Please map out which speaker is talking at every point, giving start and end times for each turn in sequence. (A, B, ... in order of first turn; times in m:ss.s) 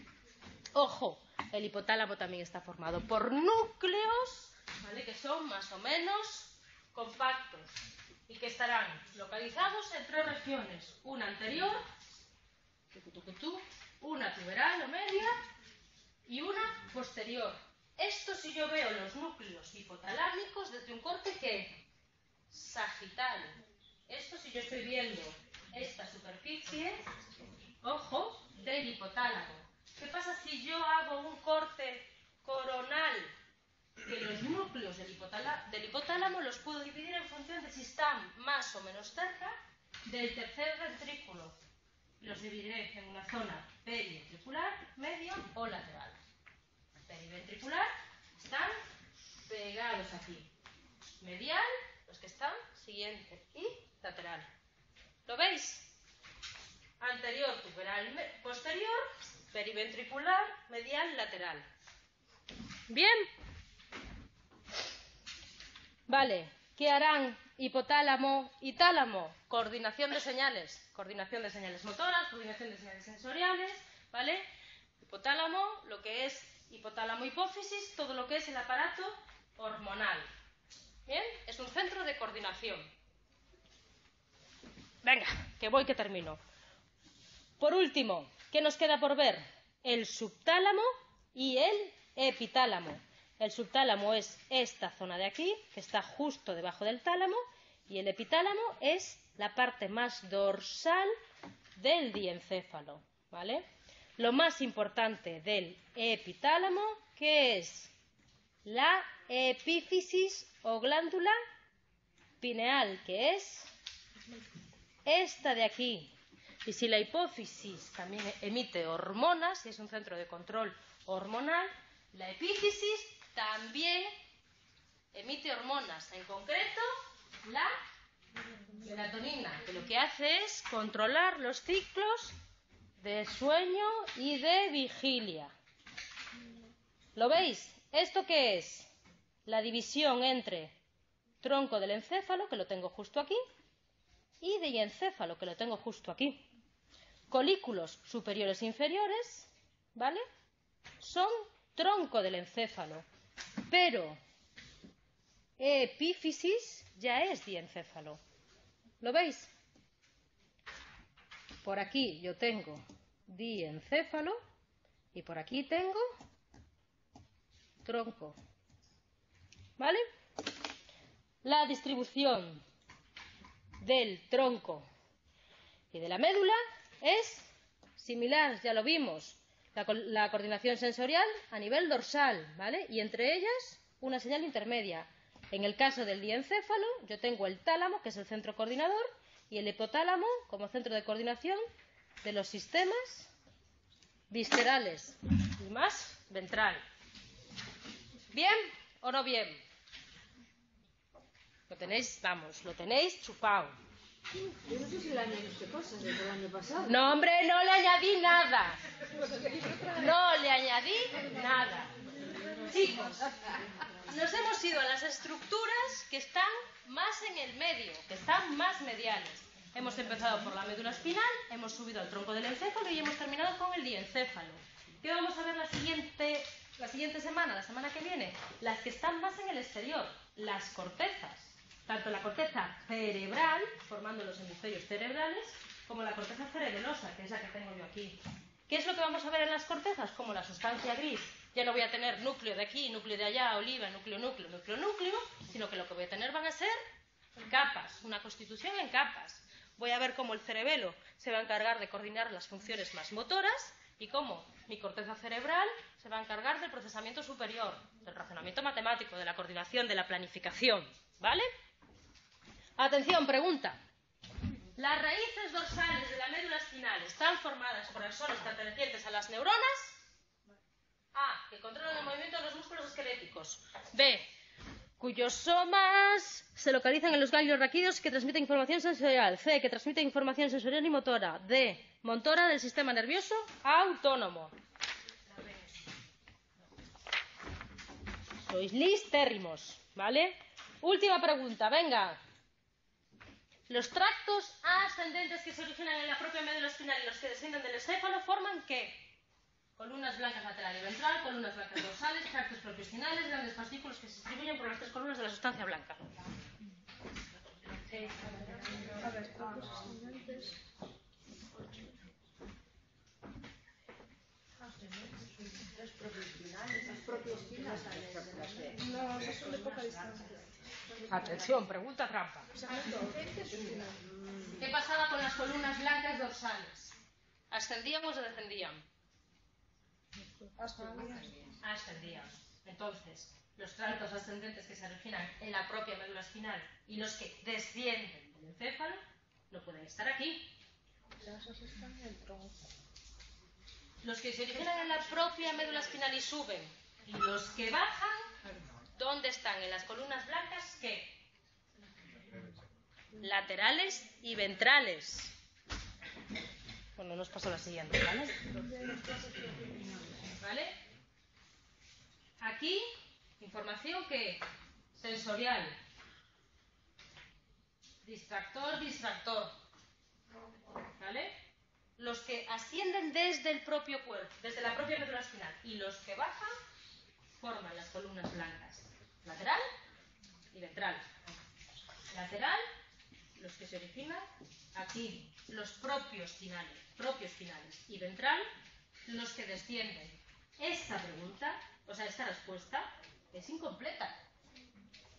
0:00.7-0:07.8 A
0:08.3-0:11.9 A
0:12.9-0:15.4 A
0:16.3-0:21.8 A
0:22.5-0:27.1 A
0:27.8-0:33.3 A
0:34.0-0:41.6 A
0:42.2-0:46.2 A
0:47.0-0:48.8 A
0:49.5-0:50.5 A
0:51.2-0:54.5 A
0:55.3-0:55.9 A
0:57.0-1:01.7 A
1:02.9-1:03.3 A
1:06.1-1:14.4 A
1:15.0-1:20.3 A
1:21.1-1:22.9 A
1:25.0-1:26.4 A
1:27.6-1:41.1 A
1:41.8-1:43.7 A
1:44.2-1:47.9 A
1:48.7-1:51.4 A
1:52.4-1:53.7 A
1:55.1-1:56.1 A
1:56.6-2:04.2 A
2:05.1-2:06.9 A
2:07.4-2:07.8 A
2:08.8-2:12.3 A
2:13.0-2:15.5 A
2:17.2-2:18.9 A
2:19.5-2:20.8 A
2:21.4-2:23.4 A
2:24.4-2:26.5 A
2:27.3-2:30.2 A
2:31.0-2:33.1 A
2:33.7-2:34.2 A
2:35.6-2:38.2 A
2:39.0-2:39.5 A
2:41.6-2:44.4 A
2:45.1-2:46.0 A
2:47.8-2:48.4 A
2:51.4-2:52.6 A
2:53.8-2:54.9 A
2:55.9-3:11.6 A
3:12.2-3:13.3 A
3:14.3-3:16.8 A
3:18.3-3:19.6 A
3:21.7-3:23.8 A
3:24.3-3:27.1 B
3:26.9-3:28.8 A
3:29.2-3:29.9 C
3:29.9-3:31.9 A
3:32.2-3:32.6 C
3:32.6-3:33.3 A
3:34.0-4:06.8 A
4:07.4-4:21.5 A
4:22.8-4:23.8 A
4:24.8-4:30.0 A
4:31.1-4:34.2 A
4:35.0-4:44.6 A
4:45.4-4:45.7 A
4:48.4-4:52.2 A
4:53.7-4:59.1 A
4:59.8-5:06.1 A
5:08.1-5:09.1 B
5:08.3-5:10.6 C
5:11.6-5:12.0 C
5:16.6-5:19.0 B
5:18.8-5:20.3 C
5:21.1-5:22.6 A
5:22.6-5:24.1 C
5:24.2-5:24.5 B
5:24.6-5:27.0 A
5:27.5-5:28.9 A
5:30.4-5:31.3 C
5:31.0-5:31.3 B
5:31.6-5:40.6 A
5:41.2-5:42.5 C
5:44.0-5:48.3 A
5:49.0-5:51.3 A
5:53.2-5:55.4 A
5:57.0-5:58.4 A
5:58.6-5:59.9 C
6:00.4-6:00.8 A
6:02.4-6:02.9 A
6:03.4-6:04.4 A
6:05.0-6:05.8 A
6:08.0-6:09.5 A
6:11.0-6:11.4 A
6:12.0-6:16.6 A
6:17.4-6:19.7 A
6:20.5-6:21.1 A
6:22.1-6:22.6 A
6:23.4-6:28.5 A
6:29.1-6:34.2 A